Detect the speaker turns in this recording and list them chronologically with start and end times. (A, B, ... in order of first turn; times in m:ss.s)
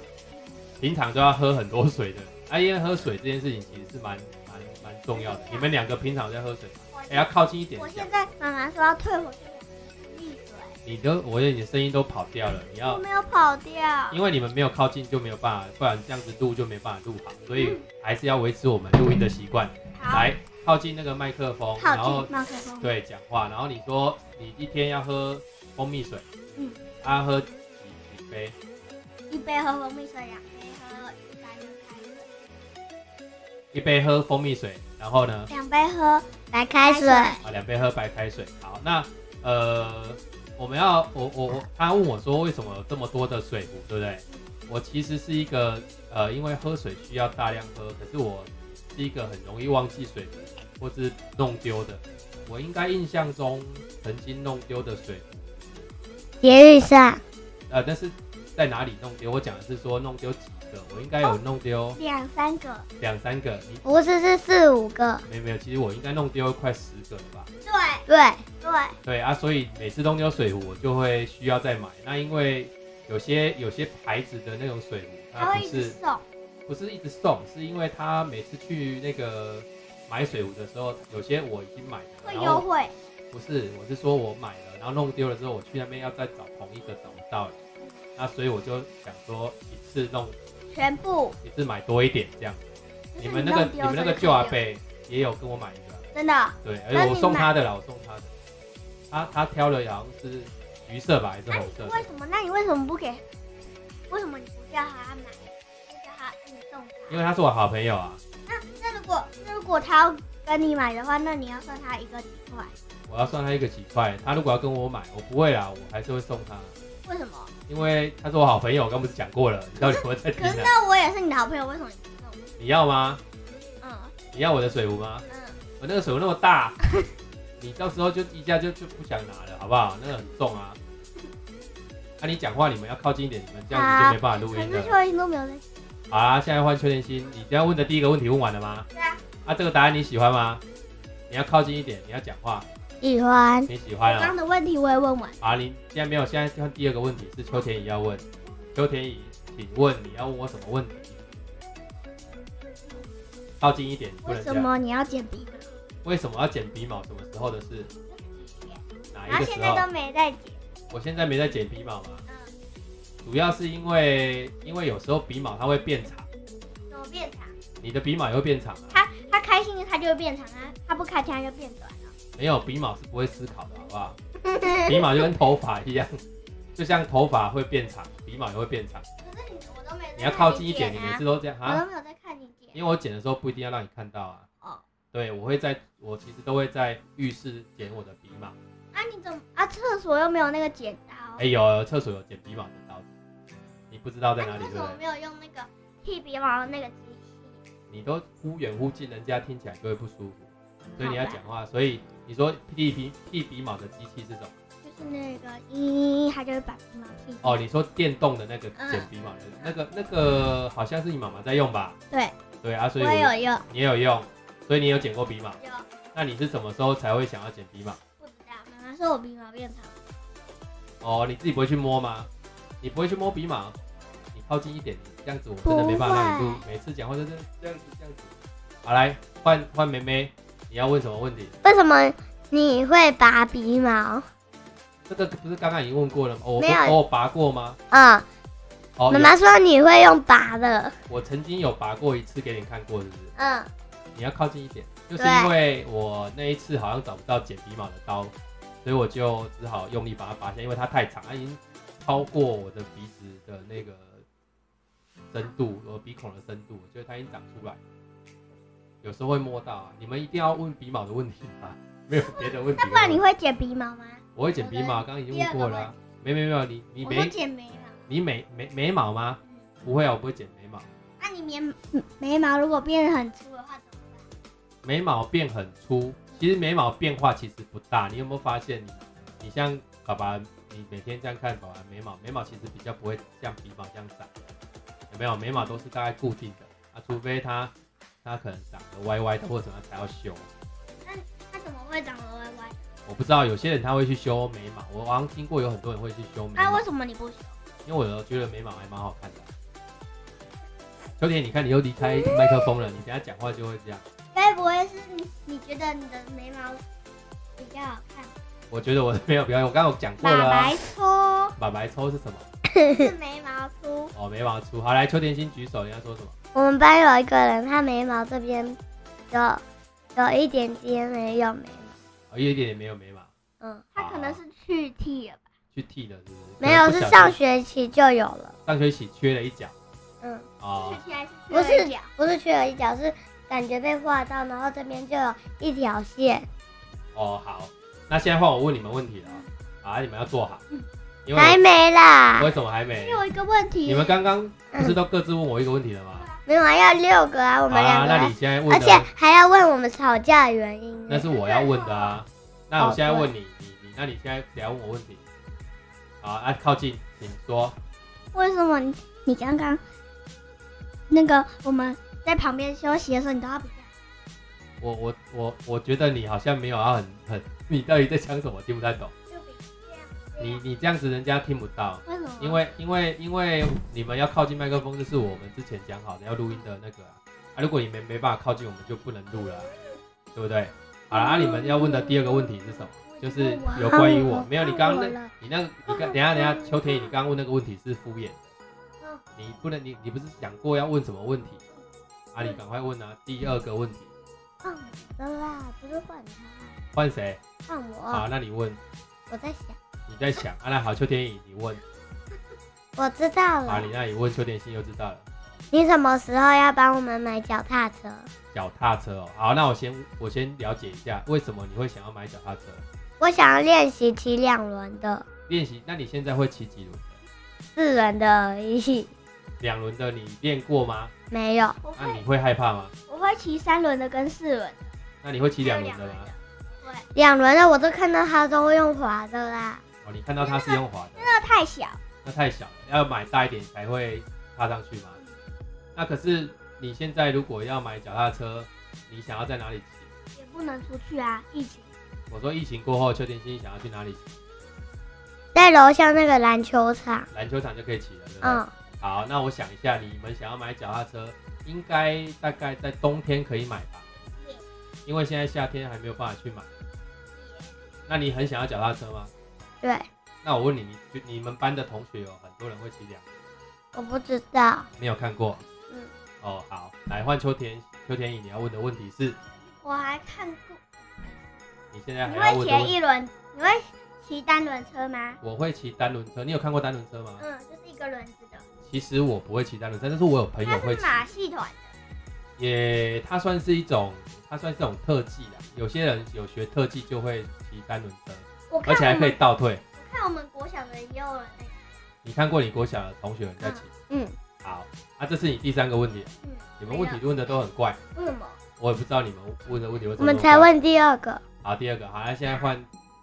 0:00.3-0:00.6 A
0:00.8-0:08.1 B
0:05.1-0:05.8 A
0:06.9-0:10.8 A
0:10.8-0:13.0 B
0:12.8-0:14.2 A
0:14.1-0:22.3 B
0:17.6-0:17.8 A
0:20.0-0:20.3 A
0:21.8-0:23.0 A
0:22.8-0:26.3 B
0:27.0-0:28.6 B
0:29.3-0:32.3 A
0:33.7-0:35.5 B
0:35.5-0:37.4 A
0:36.5-0:37.4 C
0:37.4-0:55.8 B
0:56.4-0:57.2 C
0:57.7-1:02.0 B
1:02.0-1:02.9 A
1:03.0-1:03.8 B
1:03.8-1:05.2 C
1:05.2-1:07.5 B
1:07.6-1:08.1 A
1:08.1-1:08.4 C
1:08.6-1:09.0 A
1:09.0-1:16.0 B
1:15.4-1:16.2 A
1:16.7-1:22.7 B
1:22.2-1:23.0 A
1:23.3-1:27.6 B
1:28.2-1:30.4 B
1:30.7-1:31.4 A
1:31.4-1:32.6 B
1:33.1-1:34.6 A
1:33.2-1:36.1 B
1:36.1-1:37.5 A
1:36.6-1:38.3 B
1:39.1-1:42.1 B
1:41.5-1:43.2 A
1:44.1-1:47.2 A
1:47.1-1:48.2 B
1:48.5-1:52.7 A
1:53.1-1:56.8 B
1:57.0-1:57.5 A
1:57.7-2:00.7 B
1:59.8-2:02.5 A
2:02.6-2:03.2 B
2:03.8-2:04.1 A
2:04.3-2:05.2 B
2:05.3-2:05.6 A
2:05.8-2:06.8 B
2:07.6-2:10.8 B
2:12.2-2:15.0 B
2:13.7-2:15.6 A
2:16.1-2:18.9 B
2:19.0-2:19.2 A
2:19.4-2:20.6 B
2:21.3-2:22.7 B
2:23.0-2:23.7 C
2:23.7-2:24.4 B
2:24.0-2:25.4 A
2:25.4-2:31.3 B
2:33.6-2:34.7 B
2:34.3-2:35.7 A
2:36.0-2:37.9 B
2:38.1-2:40.6 A
2:39.1-2:39.9 B
2:40.9-2:42.2 B
2:42.3-2:42.5 A
2:43.2-2:46.3 B
2:46.9-2:47.6 A
2:47.8-2:49.0 B
2:48.9-2:52.1 A
2:52.4-2:54.2 B
2:54.8-2:56.2 B
2:56.8-2:59.0 B
2:59.2-3:02.8 A
3:00.2-3:01.8 B
3:02.7-3:04.5 B
3:05.1-3:08.6 B
3:08.9-3:11.4 A
3:11.4-3:13.1 B
3:13.9-3:15.0 B
3:14.4-3:17.6 A
3:17.9-3:24.6 B
3:21.0-3:21.4 A
3:24.8-3:27.6 A
3:27.4-3:32.0 B
3:28.8-3:29.1 A
3:32.6-3:35.6 B
3:33.0-3:33.7 A
3:35.6-3:35.9 A
3:36.1-3:38.0 B
3:38.2-3:40.0 A
3:41.0-3:42.3 B
3:42.8-3:43.8 B
3:44.3-3:48.3 B
3:45.6-3:46.6 A
3:48.8-3:51.6 B
3:51.6-3:54.3 C
3:55.1-3:57.8 B
3:56.6-3:57.0 C
3:57.9-3:58.3 C
3:59.0-3:59.3 B
3:59.1-4:01.0 C
4:01.1-4:03.3 B
4:03.4-4:03.7 C
4:04.2-4:08.3 B
4:05.2-4:05.5 C
4:08.8-4:14.2 B
4:15.3-4:17.8 B
4:19.0-4:23.2 B
4:22.1-4:26.0 A
4:24.4-4:27.3 B
4:27.0-4:28.0 A
4:28.1-4:30.9 B
4:31.2-4:34.3 A
4:34.8-4:44.5 B
4:45.1-4:47.7 B
4:48.2-4:50.5 B
4:51.0-4:52.9 A
4:53.1-4:56.8 B
4:56.6-4:57.6 A
4:57.9-4:59.5 B
5:01.2-5:04.0 B
5:04.3-5:06.8 A
5:07.6-5:08.3 A
5:08.7-5:10.8 B
5:10.2-5:11.6 A
5:11.6-5:12.5 B
5:12.7-5:13.1 C
5:12.8-5:14.1 A
5:14.1-5:16.4 B
5:16.6-5:18.8 C
5:19.3-5:19.6 C
5:20.2-5:22.0 C
5:22.3-5:23.3 B
5:23.9-5:25.5 A
5:24.0-5:24.4 B
5:25.7-5:27.4 B
5:26.6-5:28.6 C
5:28.7-5:29.8 B
5:30.2-5:30.5 C
5:30.6-5:31.0 B
5:30.8-5:32.1 A
5:31.5-5:36.5 C
5:37.2-5:40.6 B
5:41.3-5:41.6 B
5:41.3-5:42.5 C
5:42.4-5:43.2 B
5:43.0-5:44.2 A
5:43.9-5:46.3 B
5:46.1-5:46.4 A
5:46.5-5:51.3 C
5:47.7-5:49.1 B
5:51.1-5:55.2 B
5:51.3-5:52.2 A
5:52.8-5:53.3 C
5:56.2-5:57.8 B
5:58.3-5:59.8 A
6:01.1-6:03.9 A
6:04.8-6:09.1 B
6:09.3-6:10.6 A
6:10.4-6:19.7 B
6:12.1-6:12.6 A
6:20.3-6:28.4 B
6:21.1-6:22.1 C
6:22.9-6:24.3 A
6:23.8-6:25.3 C
6:26.1-6:26.7 C
6:29.4-6:31.6 B
6:32.3-6:34.1 B
6:34.6-6:36.8 C
6:36.9-6:37.4 B
6:37.7-6:38.3 C
6:38.1-6:38.8 B
6:39.3-6:39.8 C
6:40.1-6:41.8 B
6:43.0-6:43.9 C
6:43.7-6:45.3 B
6:45.7-6:48.3 C
6:48.5-6:52.8 B
6:53.2-6:55.2 C
6:55.5-6:57.2 B
6:57.8-6:59.1 C
6:59.6-7:01.1 B
7:01.3-7:01.8 C
7:01.8-7:02.2 A
7:02.0-7:02.9 B
7:03.1-7:04.9 A
7:05.2-7:06.3 B
7:05.6-7:07.1 A
7:07.2-7:09.8 C
7:10.0-7:11.3 B
7:10.4-7:12.0 A
7:12.2-7:15.2 B
7:16.0-7:20.1 B
7:20.4-7:21.9 A
7:22.3-7:24.3 B
7:25.5-7:27.3 C
7:27.3-7:34.1 B
7:28.4-7:28.7 C
7:35.1-7:36.7 B
7:37.4-7:37.8 A
7:38.1-7:39.3 B
7:39.8-7:40.1 C
7:40.4-7:43.2 B
7:43.9-7:44.9 C
7:45.0-7:45.6 B
7:46.4-7:49.4 B
7:49.8-7:51.3 A
7:51.9-7:53.0 B
7:52.2-7:55.4 A
7:55.4-7:57.4 B
7:57.4-7:58.7 A
7:58.8-8:01.2 B
8:00.7-8:01.9 A
8:02.6-8:09.8 B
8:08.7-8:09.4 A
8:10.0-8:11.8 A
8:12.2-8:13.9 B
8:14.1-8:14.4 C
8:14.6-8:18.0 B
8:16.4-8:17.2 A
8:18.2-8:18.6 A
8:18.8-8:20.7 B
8:20.2-8:21.4 C
8:21.6-8:22.9 B